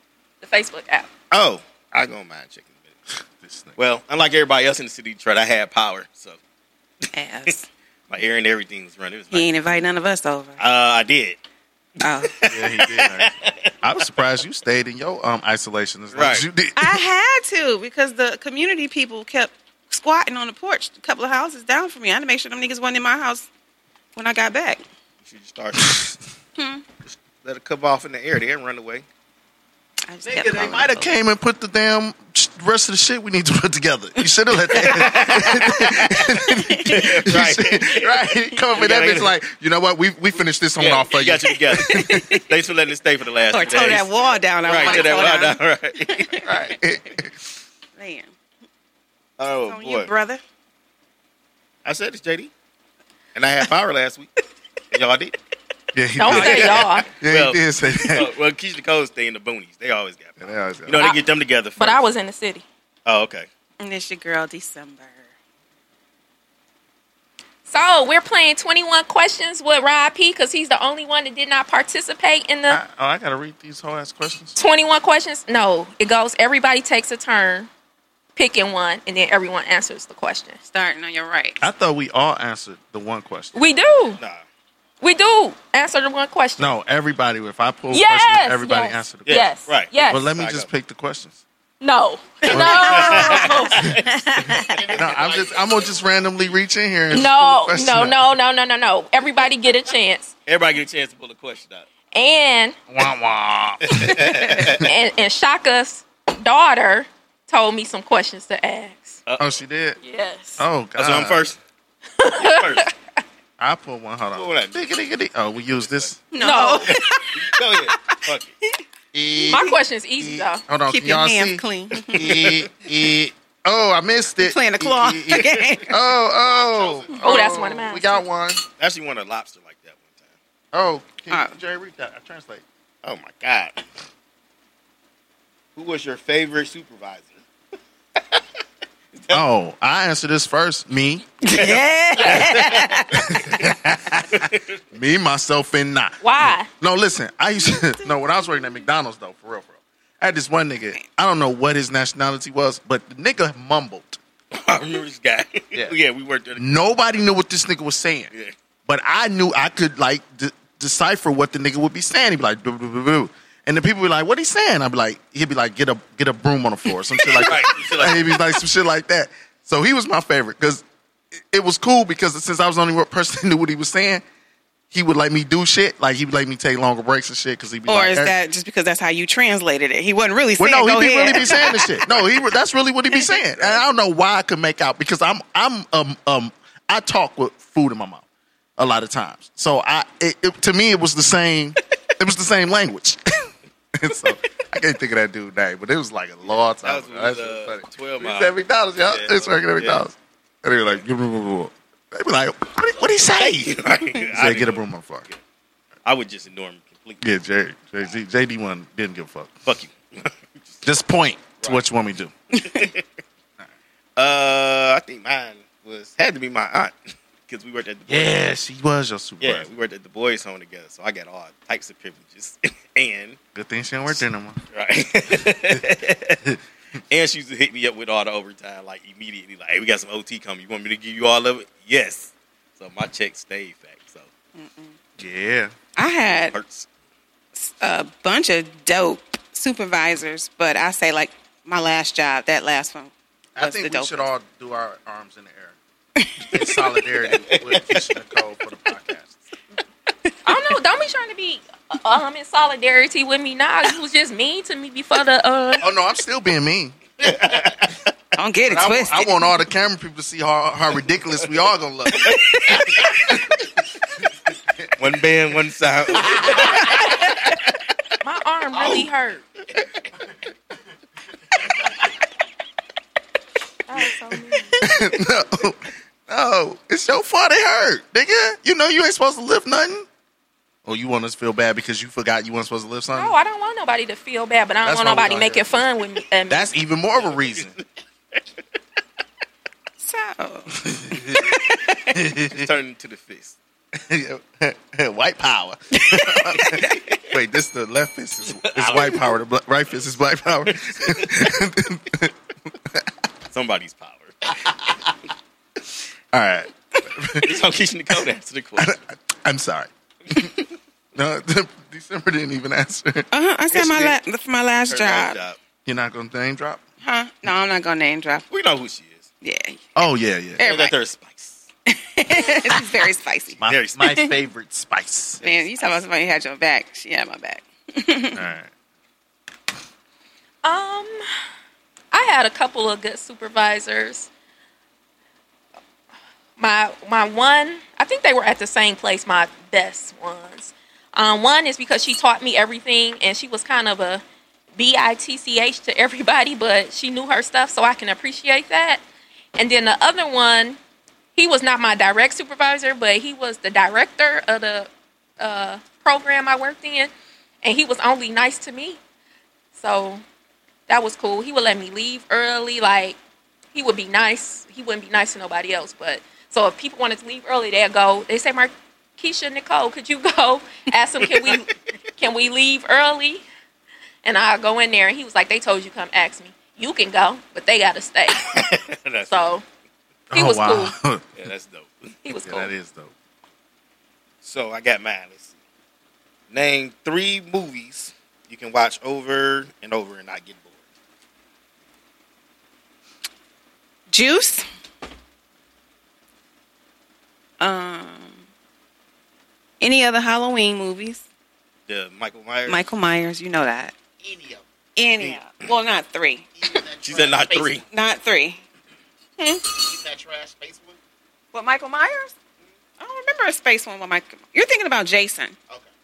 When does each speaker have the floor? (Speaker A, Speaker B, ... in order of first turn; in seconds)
Speaker A: 0.4-1.1, 56.2-57.1, 61.8-62.6, 67.7-72.8, 74.5-77.7, 78.3-80.6, 83.5-84.2, 85.0-86.8, 87.9-90.3, 91.8-93.8, 97.1-100.3, 102.1-102.8, 104.8-109.2, 110.0-110.7, 112.2-112.9, 116.3-117.0, 119.5-120.6, 127.2-128.2, 146.2-146.7, 250.4-255.8, 268.2-269.4, 273.9-274.8, 283.1-286.7, 330.6-331.2, 332.1-334.3, 336.6-344.2, 344.8-349.0, 349.6-350.8, 351.4-354.9, 355.4-357.1, 357.6-359.0, 359.7-360.2, 360.9-363.2, 363.7-373.4, 374.2-378.6, 379.3-379.6, 380.3-380.9, 382.2-382.7
Speaker B: 1.3-3.0, 3.8-6.4, 8.1-9.5, 10.6-11.4, 12.2-13.7, 16.1-16.5, 25.2-26.1, 27.1-29.1, 34.7-36.2, 36.9-39.3, 40.8-44.1, 44.6-46.5, 49.4-50.1, 51.8-52.5, 53.3-54.3, 54.9-55.3, 56.3-62.0, 63.0-63.5, 89.2-90.7, 92.8-94.6, 100.5-101.9, 103.8-104.8, 109.2-109.6, 111.0-111.6, 112.3-112.9, 114.3-115.0, 115.7-116.1, 117.3-118.5, 122.0-122.8, 125.3-125.9, 128.8-130.3, 133.0-133.8, 135.8-137.4, 139.1-139.4, 141.5-143.0, 144.3-144.7, 154.5-156.6, 167.4-168.4, 181.4-182.4, 183.6-183.8, 196.5-200.1, 203.2-205.4, 206.0-207.2, 209.7-210.8, 212.7-213.0, 214.2-216.9, 217.5-218.4, 219.4-223.4, 224.1-226.4, 227.1-234.3, 236.5-236.9, 247.3-248.2, 257.2-258.1, 262.1-263.3, 265.0-267.1, 287.3-287.8, 292.5-293.6, 298.5-299.4, 300.6-301.5, 303.5-304.6, 307.4-308.9, 313.7-314.2, 314.9-315.6, 318.5-319.3, 320.6-321.7, 323.6-324.2, 325.4-326.0, 371.3-371.6, 378.4-379.6, 381.4-382.1, 384.4-385.6, 386.5-390.8, 401.9-402.9, 405.2-405.6, 407.0-407.8
Speaker C: 3.4-3.8, 12.5-13.3, 13.8-17.0, 30.2-42.4, 46.4-47.5, 55.9-58.3, 60.4-61.1, 72.7-74.6, 81.6-83.5, 86.6-89.5, 90.0-91.4, 92.5-93.1, 94.9-98.3, 102.9-104.9, 109.4-110.0, 110.6-111.4, 113.6-116.2, 119.1-128.7, 130.7-132.6, 139.3-141.2, 143.2-154.2, 156.6-158.3, 158.8-174.2, 174.9-178.3, 180.6-188.2, 188.8-203.7, 204.3-205.2, 207.2-209.6, 210.8-212.3, 218.1-219.7, 223.5-224.6, 235.2-235.7, 243.6-245.8, 246.4-249.4, 255.8-257.5, 258.6-262.3, 266.3-266.6, 274.8-280.1, 280.9-283.4, 284.8-285.9, 286.5-287.8, 290.9-291.5, 292.1-292.7, 294.0-303.1, 306.3-307.6, 308.8-310.5, 311.1-313.2, 315.9-316.8, 319.9-320.6, 323.6-325.4, 328.4-328.7, 380.3-381.2, 382.4-383.1
Speaker D: 7.1-7.7, 9.3-10.6, 12.0-12.4, 16.8-23.5, 24.1-24.8, 26.6-26.8, 30.1-31.0, 34.2-36.9, 43.5-45.6, 46.2-46.7, 48.0-48.3, 49.6-50.4, 63.8-65.3, 80.7-81.6, 92.5-94.8, 116.3-118.2, 120.8-122.5, 124.4-126.0, 131.3-131.5, 141.4-143.6, 177.8-182.1, 212.5-212.9, 234.6-235.0, 236.0-236.6, 237.5-244.3, 246.2-246.5, 258.4-259.5, 262.1-262.9, 290.0-290.8, 291.4-292.2, 295.9-297.2, 313.3-315.4, 317.0-318.5, 319.4-319.9, 320.6-320.9, 321.9-324.3, 325.4-328.4, 394.1-394.7, 397.6-398.4, 399.8-401.2, 402.7-403.9, 405.0-406.8, 407.9-408.6, 409.4-409.8, 411.5-412.3, 413.0-415.6
Speaker E: 94.7-96.5, 126.4-127.5, 404.2-404.6, 406.6-407.8, 409.7-411.0